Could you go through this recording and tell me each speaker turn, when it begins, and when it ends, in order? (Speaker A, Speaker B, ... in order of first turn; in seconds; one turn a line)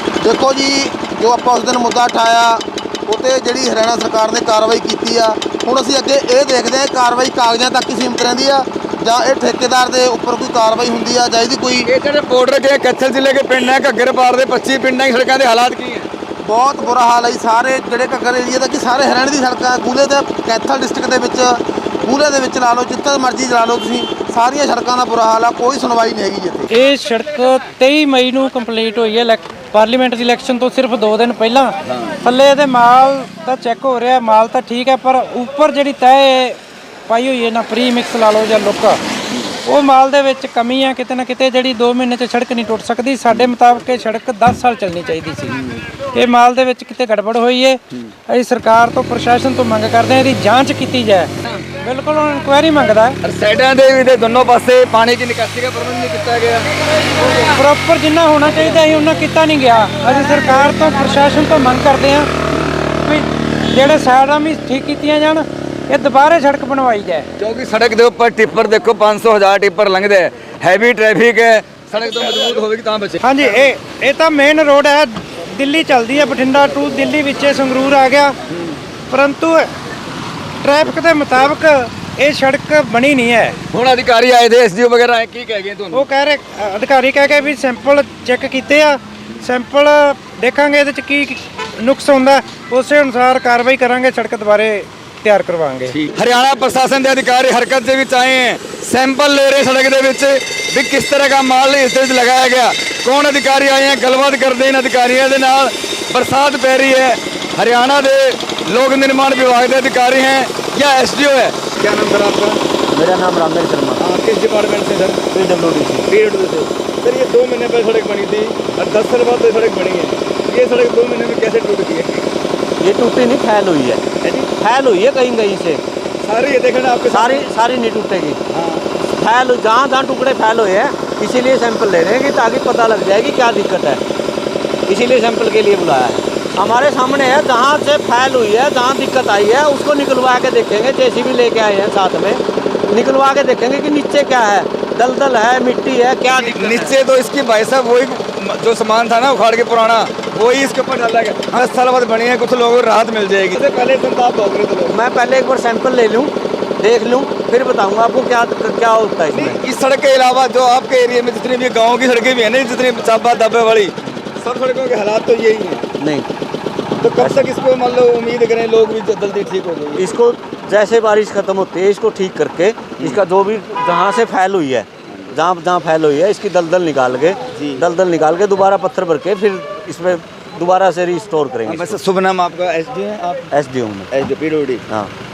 Speaker A: 0.2-11.9
Speaker B: 11.8-16.1
Speaker A: 16.4-26.7
Speaker C: 26.7-39.0
Speaker C: 39.6-45.6
Speaker C: 46.1-53.2
Speaker B: 53.2-56.7
Speaker C: 57.4-62.3
Speaker C: 63.0-67.3
Speaker B: 67.4-73.2
Speaker C: 73.2-78.3
Speaker C: 79.1-79.7
Speaker C: 80.6-83.6
Speaker B: 83.7-86.1
Speaker C: 85.9-96.0
Speaker B: 96.0-112.6
Speaker D: 112.9-114.1
Speaker B: 114.0-115.2
Speaker D: 115.3-116.1
Speaker B: 116.1-122.2
Speaker D: 122.8-124.0
Speaker B: 124.2-124.5
Speaker D: 124.5-125.8
Speaker B: 126.2-127.5
Speaker D: 127.1-128.4
Speaker B: 128.5-128.8
Speaker D: 129.1-134.0
Speaker D: 134.8-146.9
Speaker B: 146.5-155.0
Speaker D: 154.9-159.6
Speaker B: 159.3-165.9
Speaker D: 166.0-166.3
Speaker B: 167.0-170.1
Speaker D: 167.0-167.4
Speaker D: 169.9-182.0
Speaker B: 173.0-173.2
Speaker B: 177.5-177.8
Speaker B: 181.6-183.5
Speaker D: 183.5-184.1
Speaker B: 184.1-184.8